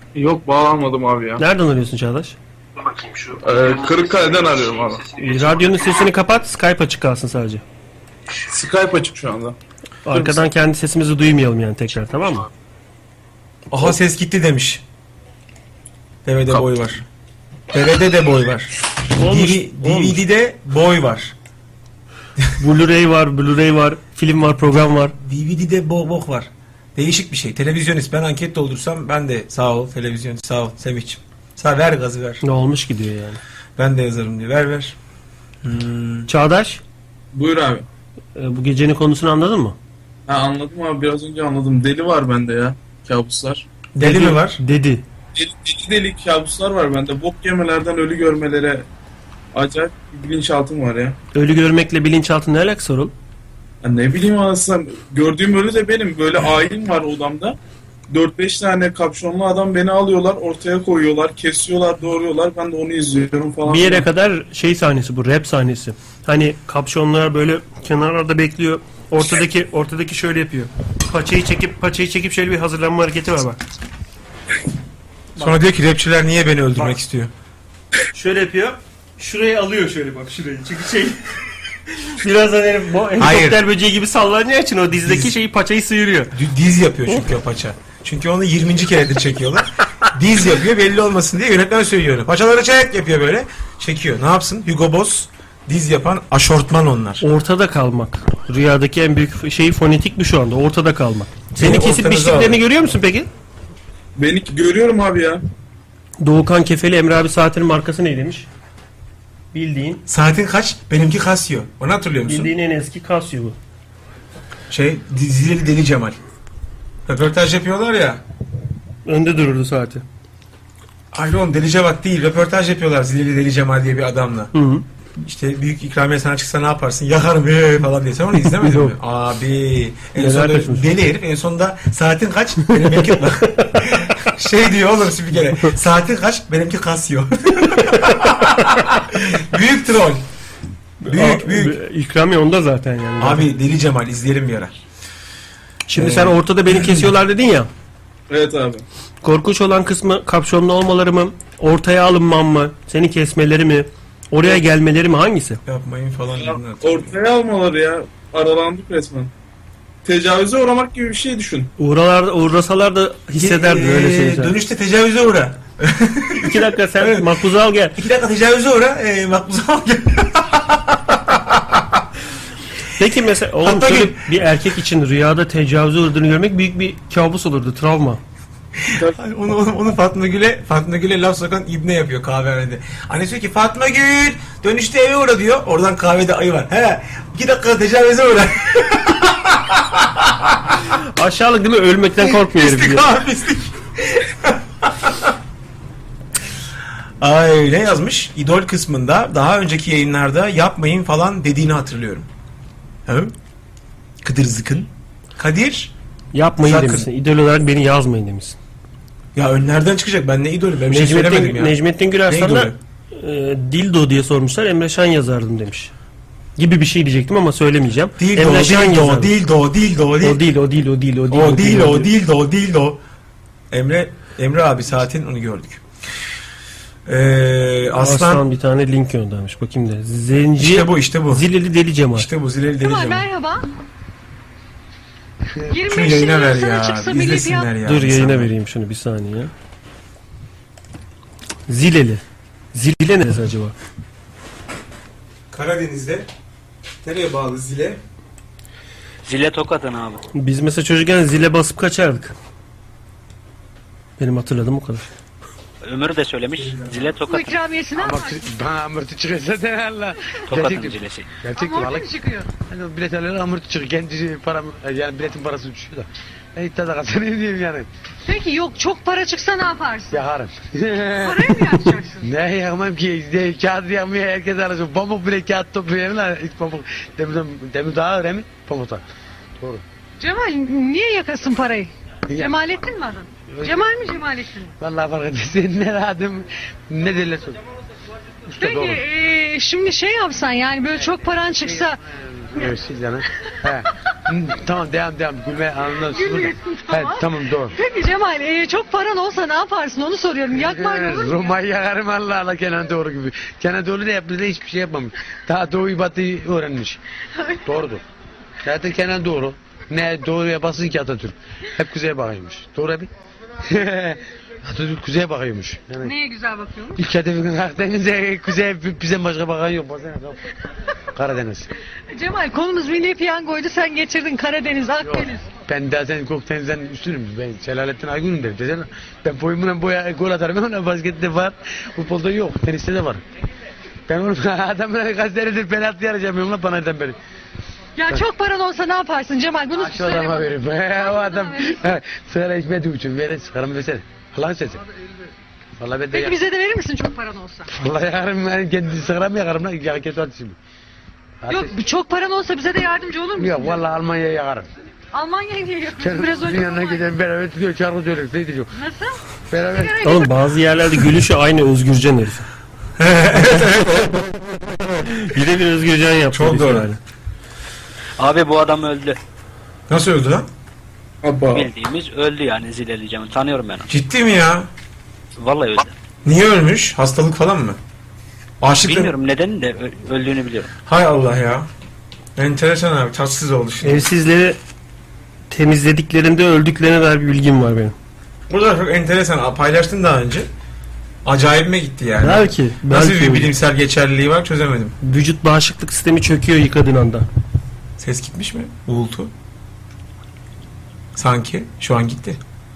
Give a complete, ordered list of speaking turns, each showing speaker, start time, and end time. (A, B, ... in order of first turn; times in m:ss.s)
0:00.1-0:01.4 A
0:01.4-0:02.4 B
0:03.4-0:05.1 A
0:05.2-0:07.6 B
0:08.3-0:09.6 A
0:10.0-0:12.5 B
0:13.7-0:14.8 C
0:16.2-0:17.0 C
0:17.7-0:21.3 C
0:19.1-0:20.2 B
0:22.6-0:25.1 B
0:25.2-0:32.4 C
0:32.4-0:33.4 B
0:33.8-0:35.0 C
0:35.6-0:36.3 C
0:36.3-0:36.8 B
0:37.3-0:37.9 A
0:38.4-0:39.8 B
0:40.3-0:43.6 A
0:43.9-0:44.6 C
0:44.0-0:45.0 B
0:45.3-0:48.9 A
0:49.5-0:51.2 A
0:51.3-0:53.1 B
0:53.8-0:57.6 A
0:58.1-1:04.1 A
1:03.6-1:13.6 B
1:15.4-1:17.3 C
1:18.1-1:21.2 B
1:21.9-1:26.4 B
1:23.2-1:23.6 C
1:25.0-1:25.3 C
1:26.3-1:37.2 C
1:37.2-1:43.3 B
1:41.5-1:42.6 C
1:44.2-1:45.4 A
1:46.2-1:48.5 B
1:49.5-1:50.0 B
1:50.1-1:52.5 C
1:52.2-1:53.6 B
1:54.7-1:56.2 C
1:57.0-1:58.2 C
1:59.0-2:00.0 B
2:01.1-2:04.5 C
2:04.5-2:04.8 B
2:05.2-2:20.2 C
2:08.4-2:09.0 B
2:10.2-2:10.9 B
2:12.7-2:13.9 B
2:21.0-2:23.5 B
2:21.1-2:21.8 C
2:23.2-2:24.7 C
2:25.9-2:27.7 B
2:25.9-2:27.1 C
2:28.3-2:28.8 A
2:29.2-2:35.6 B
2:35.6-2:37.2 C
2:36.4-2:39.3 A
2:40.0-2:41.7 A
2:41.8-2:44.6 B
2:43.3-2:47.3 C
2:46.4-2:48.0 B
2:48.0-2:52.0 C
2:53.0-2:58.2 B
2:53.6-2:54.3 C
2:58.8-3:10.8 C
3:11.0-3:13.0 B
3:12.2-3:15.3 C
3:17.2-3:22.3 C
3:23.0-3:23.3 C
3:24.2-3:25.9 C
3:26.3-3:28.6 B
3:26.6-3:27.1 C
3:29.3-3:32.8 C
3:30.9-3:35.9 B
3:36.6-3:39.3 B
3:38.2-3:40.4 C
3:40.2-3:42.1 B
3:41.3-3:43.0 C
3:43.7-3:45.8 C
3:47.0-3:48.4 C
3:48.0-3:52.3 B
3:50.6-3:51.4 C
3:52.1-3:53.3 C
3:52.8-3:53.7 D
3:55.7-3:57.7 D
3:55.9-3:58.5 C
3:57.8-3:59.5 B
4:01.7-4:02.2 B
4:02.7-4:03.7 B
4:05.5-4:06.3 C
4:07.0-4:08.0 C
4:09.2-4:10.2 E
4:10.3-4:12.3 B
4:14.2-4:15.1 B
4:15.8-4:17.6 E
4:16.6-4:17.1 C
4:17.3-4:18.5 D
4:17.9-4:27.9 F
4:20.5-4:21.3 E
4:21.5-4:22.5 D
4:28.2-4:30.2 D
4:30.1-4:39.0 F
4:31.2-4:32.3 D
4:40.2-4:44.7 D
4:42.3-4:42.6 F
4:43.5-4:43.8 F
4:44.8-4:47.6 F
4:48.5-4:49.0 F
4:48.6-4:52.0 D
4:52.5-4:57.8 F
4:56.0-5:01.5 D
5:00.5-5:07.0 F
5:07.6-5:08.0 F
5:08.6-5:13.1 F
5:13.6-5:16.1 F
5:16.0-5:17.0 D
5:17.0-5:20.4 F
5:21.1-5:21.7 F
5:22.1-5:25.5 D
5:25.0-5:33.2 F
5:34.1-5:37.2 F
5:38.0-5:41.8 D
5:39.7-5:44.8 F
5:45.8-5:46.4 F
5:46.1-5:47.7 D
5:47.7-5:50.6 F
5:51.4-5:51.8 F
5:51.5-5:53.8 D
5:53.4-5:54.7 F
5:55.1-5:57.1 D
5:56.0-5:58.7 F
5:58.7-6:00.3 D
5:59.5-6:00.0 F
6:00.0-6:02.5 B
6:03.0-6:04.8 C
6:05.0-6:07.0 B
6:06.3-6:06.9 C
6:08.2-6:09.2 E
6:09.9-6:10.5 C
6:11.2-6:11.7 A
6:11.5-6:13.9 E
6:13.9-6:14.7 C
6:15.4-6:15.9 E
6:16.2-6:17.8 C
6:18.6-6:19.1 C
6:18.8-6:20.7 E
6:20.8-6:21.7 C
6:22.4-6:24.1 C
6:23.8-6:24.6 B
6:25.5-6:27.9 B
6:28.5-6:30.5 C
6:31.2-6:35.0 C
6:32.2-6:33.5 B
6:35.0-6:37.3 B
6:38.0-6:39.3 C
6:41.1-6:42.4 C